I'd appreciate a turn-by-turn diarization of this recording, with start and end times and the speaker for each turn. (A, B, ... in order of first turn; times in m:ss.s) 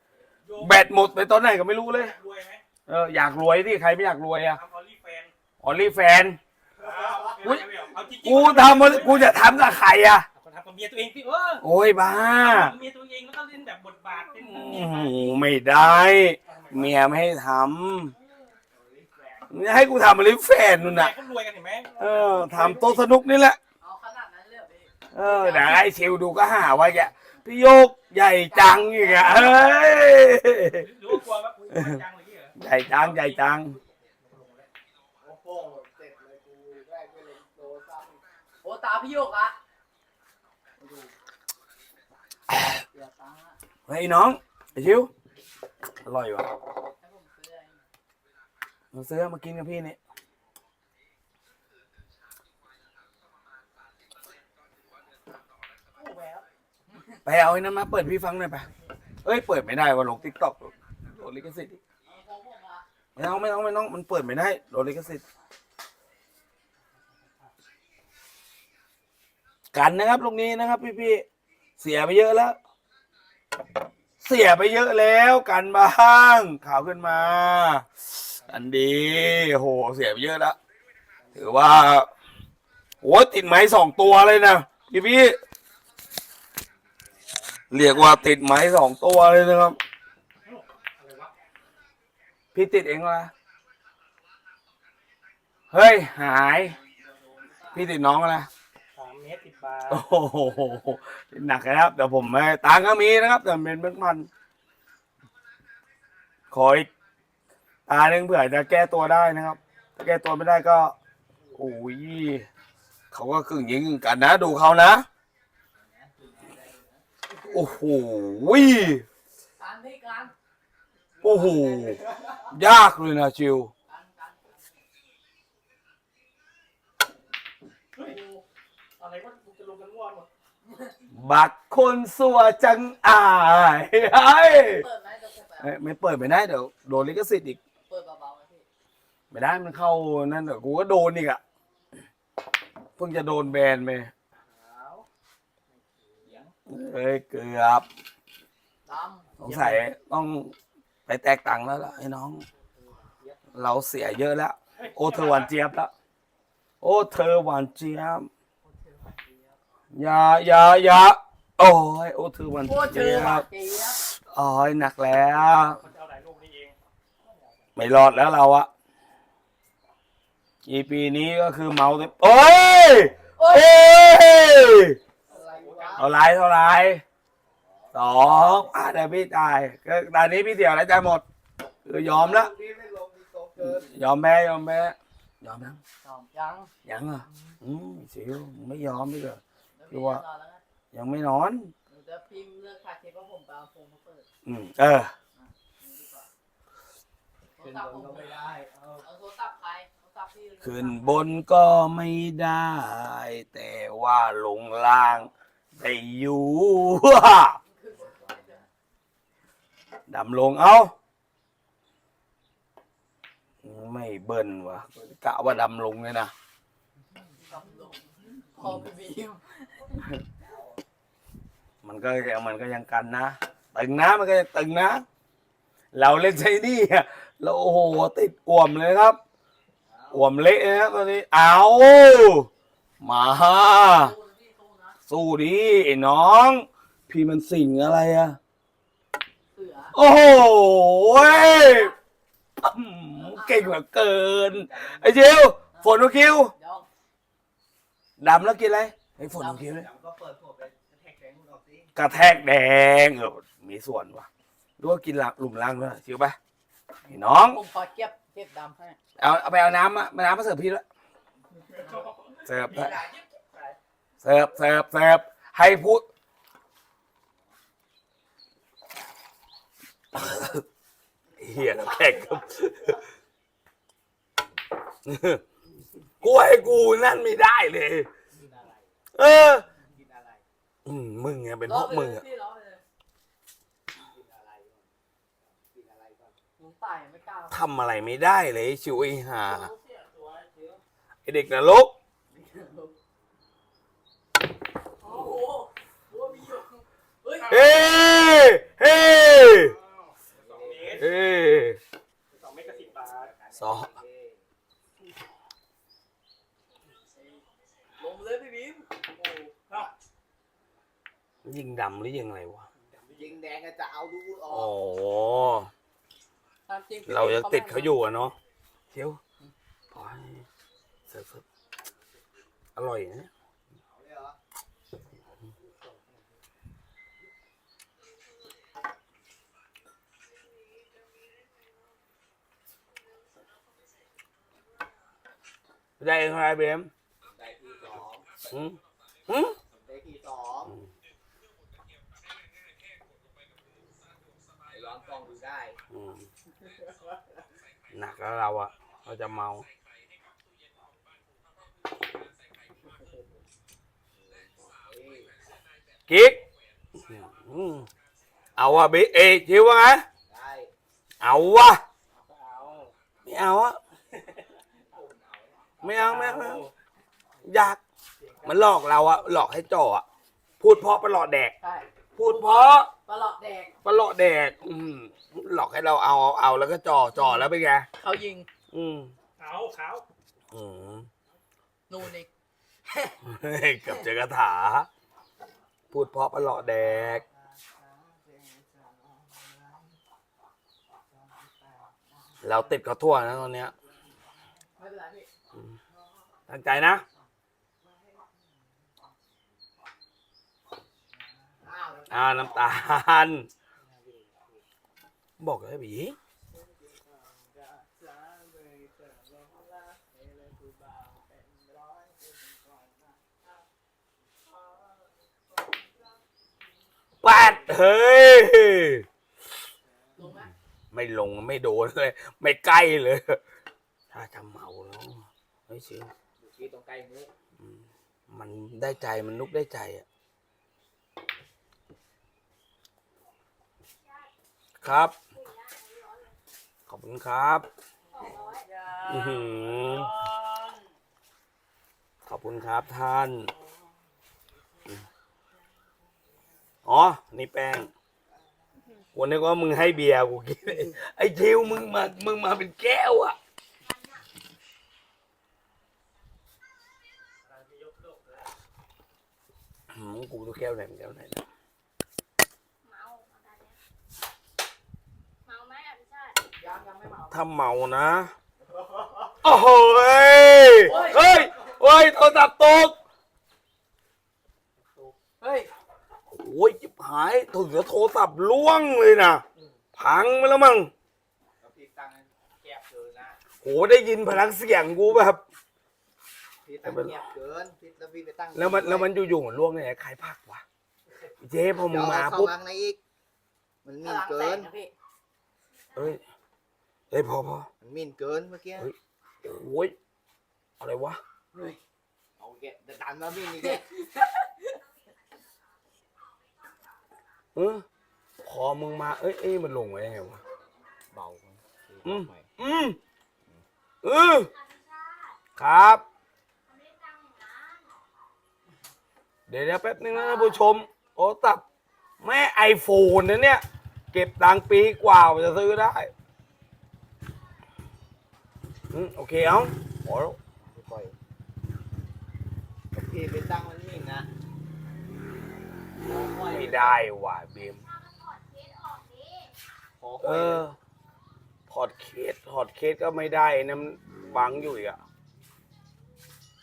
0:00.4-0:00.8 A
0:00.6-0:02.1 B
0:01.9-0:02.6 A
0:02.9-0:04.6 B
0:04.5-0:05.3 A
0:05.6-0:06.4 B
0:06.8-0:07.4 C
0:06.8-0:09.5 A
0:08.2-0:10.3 B
0:10.4-0:11.7 A
0:11.6-0:12.7 B
0:12.4-0:15.4 A
0:14.4-0:18.1 B
0:16.5-0:17.0 A
0:18.7-0:19.6 C
0:19.5-0:21.1 B
0:20.8-0:23.2 A
0:22.0-0:23.6 B
0:23.8-0:25.9 D
0:25.1-0:30.9 B
0:28.4-0:29.9 D
0:30.7-0:34.7 A
0:31.7-0:32.0 B
0:32.6-0:33.8 B
0:35.2-0:38.2 C
0:38.6-0:39.6 D
0:40.8-0:41.1 C
0:42.6-0:43.6 D
0:43.9-0:45.1 B
0:46.0-0:46.5 B
0:47.0-0:47.9 D
0:48.9-0:50.0 B
0:56.0-0:56.5 A
0:56.9-0:57.2 D
0:57.3-0:58.7 B
0:59.2-1:01.8 B
1:02.1-1:02.8 D
1:03.2-1:05.2 B
1:09.7-1:11.2 B
1:11.8-1:12.6 B
1:14.2-1:17.9 B
1:18.4-1:20.6 B
1:21.4-1:22.1 B
1:23.0-1:25.4 B
1:26.8-1:27.6 C
1:27.7-1:29.8 B
1:30.4-1:31.3 A
1:32.6-1:33.3 B
1:35.7-1:36.8 B
1:36.3-1:37.9 D
1:37.7-1:38.5 B
1:39.0-1:40.0 A
1:39.9-1:44.3 B
1:46.5-1:46.9 B
1:47.9-1:51.0 B
1:51.6-1:52.5 B
1:53.1-1:55.1 B
1:55.7-1:57.1 C
1:57.4-1:59.0 B
1:59.6-2:00.4 D
2:01.2-2:02.0 C
2:01.2-2:02.0 B
2:01.3-2:02.3 D
2:02.5-2:03.7 B
2:03.9-2:04.8 D
2:08.0-2:08.4 D
2:09.0-2:10.3 A
2:10.6-2:11.0 D
2:11.1-2:14.8 B
2:14.6-2:15.8 D
2:15.6-2:17.6 B
2:17.9-2:18.7 D
2:19.3-2:21.4 B
2:23.0-2:24.1 B
2:24.5-2:25.0 A
2:25.9-2:26.4 A
2:26.2-2:26.5 C
2:26.7-2:27.9 B
2:28.9-2:29.8 D
2:29.4-2:30.5 B
2:31.1-2:32.4 B
2:32.8-2:33.4 C
2:33.5-2:35.9 B
2:34.8-2:35.5 A
2:36.8-2:38.3 B
2:38.6-2:39.6 D
2:38.7-2:39.2 C
2:39.9-2:45.8 B
2:42.6-2:44.0 D
2:45.7-2:47.5 A
2:47.8-2:48.7 B
2:50.7-2:55.0 B
2:53.4-2:53.8 D
2:55.3-2:56.1 C
2:55.3-2:56.0 A
2:56.0-2:57.0 B
2:57.4-2:58.7 C
2:57.9-3:01.2 B
3:01.8-3:02.5 B
3:02.0-3:03.9 C
3:03.6-3:05.8 B
3:06.0-3:06.7 D
3:06.8-3:10.2 B
3:07.3-3:07.6 C
3:09.8-3:10.6 D
3:10.9-3:11.7 B
3:11.9-3:14.3 D
3:14.4-3:15.1 B
3:15.4-3:16.3 D
3:17.6-3:18.3 D
3:17.6-3:19.1 C
3:19.0-3:21.3 D
3:20.6-3:27.6 B
3:27.6-3:28.6 D
3:27.9-3:28.7 C
3:30.1-3:30.9 B
3:33.6-3:36.3 B
3:37.3-3:40.0 D
3:40.4-3:40.8 C
3:41.8-3:45.0 B
3:45.9-3:49.2 B
3:49.8-3:50.4 C
3:50.1-3:52.5 B
3:53.0-3:54.2 B
3:53.7-3:55.0 D
3:55.1-3:58.4 B
3:59.5-4:00.0 D
3:59.9-4:01.9 B
4:01.6-4:02.0 D
4:02.6-4:06.5 B
4:03.2-4:03.8 D
4:04.5-4:05.3 C
4:05.7-4:06.0 D
4:06.5-4:06.9 D
4:08.2-4:09.9 B
4:09.3-4:09.7 D
4:09.6-4:11.9 C
4:12.0-4:14.3 B
4:14.8-4:16.4 B
4:17.0-4:19.0 D
4:17.1-4:17.6 B
4:19.2-4:20.8 B
4:21.8-4:23.3 D
4:21.9-4:23.0 A
4:22.5-4:23.0 B
4:23.5-4:23.8 A
4:24.2-4:26.1 B
4:30.1-4:30.6 B
4:31.4-4:33.0 B
4:35.1-4:35.4 B
4:36.2-4:36.6 C
4:36.2-4:38.1 B
4:38.3-4:39.0 C
4:39.2-4:39.7 B
4:39.8-4:40.4 C
4:40.9-4:42.2 B
4:41.7-4:42.8 D
4:44.1-4:46.4 C
4:46.6-4:47.6 D
4:47.5-4:49.7 B
4:49.9-4:50.7 A
4:51.3-4:52.0 B
4:52.3-4:52.9 D
4:55.0-4:57.6 D
4:57.5-4:59.8 B
5:00.0-5:01.1 A
5:00.3-5:01.1 C
5:01.0-5:01.8 B
5:02.3-5:03.3 A
5:02.5-5:04.5 C
5:03.6-5:03.9 B
5:07.0-5:07.4 D
5:08.0-5:09.6 D
5:11.4-5:12.7 B
5:12.8-5:13.4 A
5:13.1-5:14.8 C
5:14.5-5:15.7 B
5:16.7-5:18.0 D
5:17.1-5:18.4 B
5:18.9-5:19.2 B
5:19.9-5:20.4 B
5:21.1-5:21.4 B
5:22.8-5:23.3 B
5:23.8-5:24.4 C
5:25.7-5:26.2 A
5:36.0-5:36.9 B
5:37.2-5:38.4 C
5:38.4-5:39.6 B
5:39.6-5:40.8 C
5:44.7-5:45.8 C
5:45.9-5:46.3 B
5:46.7-5:47.4 C
5:47.9-5:49.7 B
5:52.8-5:53.4 A
5:54.1-5:55.4 C
5:56.1-5:56.4 B
5:57.0-5:57.9 B
5:58.6-6:00.0 B
6:00.3-6:00.7 C
6:01.2-6:01.8 B
6:02.1-6:02.9 A
6:03.2-6:03.8 B
6:04.9-6:05.9 C
6:05.8-6:06.6 B
6:05.8-6:06.7 A
6:07.4-6:07.8 B
6:08.2-6:08.7 A
6:08.4-6:10.0 B
6:10.6-6:11.5 B
6:11.6-6:13.8 D
6:12.2-6:12.9 B
6:13.8-6:17.9 B
6:17.2-6:18.5 D
6:18.7-6:19.1 B
6:19.4-6:20.0 A
6:20.5-6:21.1 B
6:21.9-6:22.3 D
6:22.9-6:23.2 D
6:23.2-6:24.9 B
6:25.9-6:27.2 B
6:26.5-6:30.0 C
6:31.1-6:33.0 C
6:32.4-6:33.7 B
6:33.7-6:34.6 C
6:34.8-6:35.3 D
6:35.9-6:36.4 C
6:36.5-6:37.0 B
6:37.8-6:39.2 C
6:41.5-6:42.7 C
6:42.1-6:43.5 B
6:43.8-6:44.6 A
6:45.4-6:46.2 B
6:46.5-6:53.2 C
6:54.4-6:56.1 C
6:57.2-6:59.0 B
6:57.2-6:57.9 C
6:59.8-7:00.2 C
7:00.2-7:00.5 D
7:00.9-7:03.4 B
7:04.1-7:06.1 B
7:06.4-7:07.3 C
7:07.6-7:10.1 B
7:14.0-7:14.3 E
7:14.8-7:15.2 B
7:15.3-7:16.4 E
7:16.9-7:17.7 B
7:18.1-7:18.7 E
7:18.7-7:20.7 A
7:19.1-7:20.1 B
7:22.3-7:23.5 B
7:26.8-7:27.9 B
7:29.2-7:33.4 B
7:33.8-7:34.2 E
7:37.4-7:38.5 A
7:39.9-7:41.4 B
7:42.8-7:43.8 E
7:45.4-7:46.4 E
7:46.6-7:47.4 D
7:47.3-7:48.3 B
7:48.6-7:49.5 C
7:49.4-7:53.0 B
7:50.8-7:51.3 D
7:51.0-7:51.5 C
7:54.8-7:55.1 A
7:55.4-7:55.7 D
7:56.3-7:59.4 B
8:00.0-8:00.9 B
8:01.6-8:03.4 C
8:03.6-8:05.4 B
8:06.6-8:09.1 C
8:06.8-8:07.2 B
8:08.5-8:10.6 B
8:11.4-8:12.5 B
8:11.8-8:13.0 C
8:13.8-8:14.7 C
8:14.0-8:14.9 D
8:15.7-8:16.2 E
8:16.0-8:16.2 B
8:17.1-8:17.7 B
8:17.8-8:18.9 C
8:18.8-8:20.0 B
8:20.8-8:21.2 B
8:21.5-8:21.8 D
8:22.4-8:23.9 C
8:23.6-8:24.8 D
8:27.6-8:27.8 B
8:28.4-8:30.4 B
8:31.1-8:32.5 C
8:32.0-8:33.0 B
8:34.0-8:34.5 B
8:34.4-8:35.4 E
8:35.6-8:36.0 B
8:36.7-8:37.9 E
8:39.5-8:41.6 B
8:40.2-8:40.6 D
8:40.2-8:40.5 E
8:42.2-8:46.1 B
8:48.9-8:50.4 B
8:50.7-8:51.2 C
8:52.9-8:54.3 C
8:56.0-8:57.0 C
8:56.3-8:57.8 B
8:57.8-8:59.5 E
9:00.0-9:00.7 C
9:00.2-9:00.8 B
9:01.7-9:05.0 B